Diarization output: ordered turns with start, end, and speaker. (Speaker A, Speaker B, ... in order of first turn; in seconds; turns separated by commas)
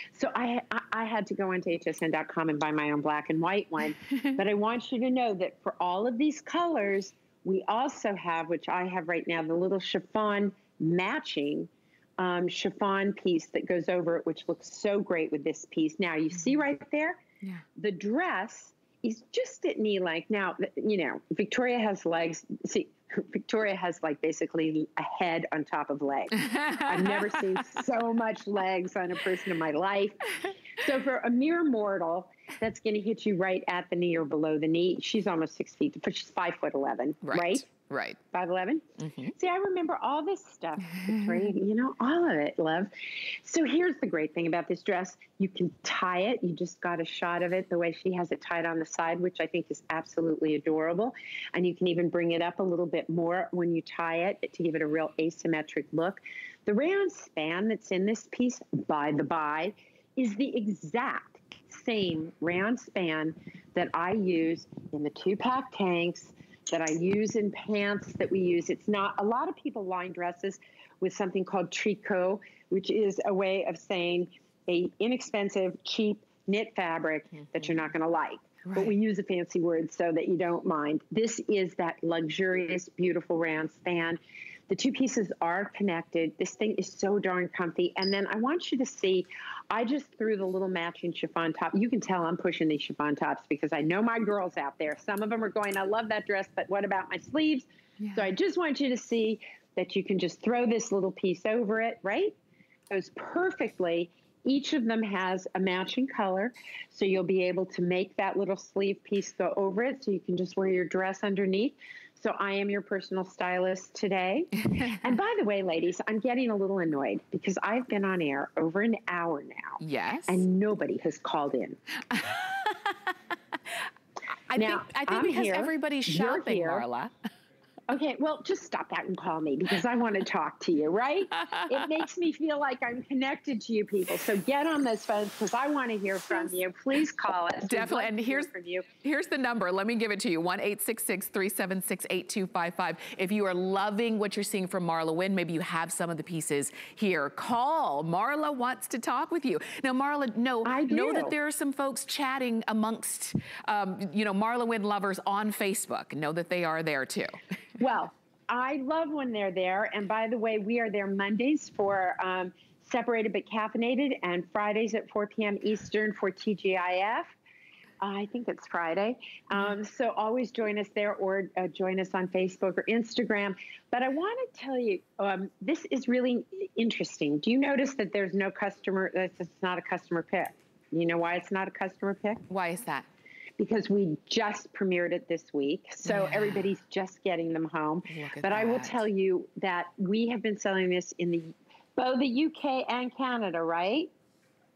Speaker A: 0.1-17.2, Speaker A: 17.8-37.7, Speaker B: 26.4-27.4, Speaker B: 37.2-38.2, Speaker A: 38.3-38.8, Speaker B: 39.0-39.3, Speaker A: 39.4-102.3, Speaker B: 40.9-41.5, Speaker B: 77.5-77.9, Speaker B: 78.6-79.0, Speaker B: 98.0-98.3, Speaker A: 102.9-121.8, Speaker B: 119.8-120.4, Speaker B: 122.1-123.1, Speaker B: 124.5-127.1, Speaker A: 124.6-126.8, Speaker A: 127.9-138.9, Speaker B: 137.7-138.5, Speaker B: 139.0-157.4, Speaker A: 150.6-151.3, Speaker A: 157.8-167.3, Speaker A: 168.0-182.4, Speaker B: 182.5-183.1, Speaker A: 183.6-194.1, Speaker B: 186.0-186.6, Speaker B: 188.1-189.1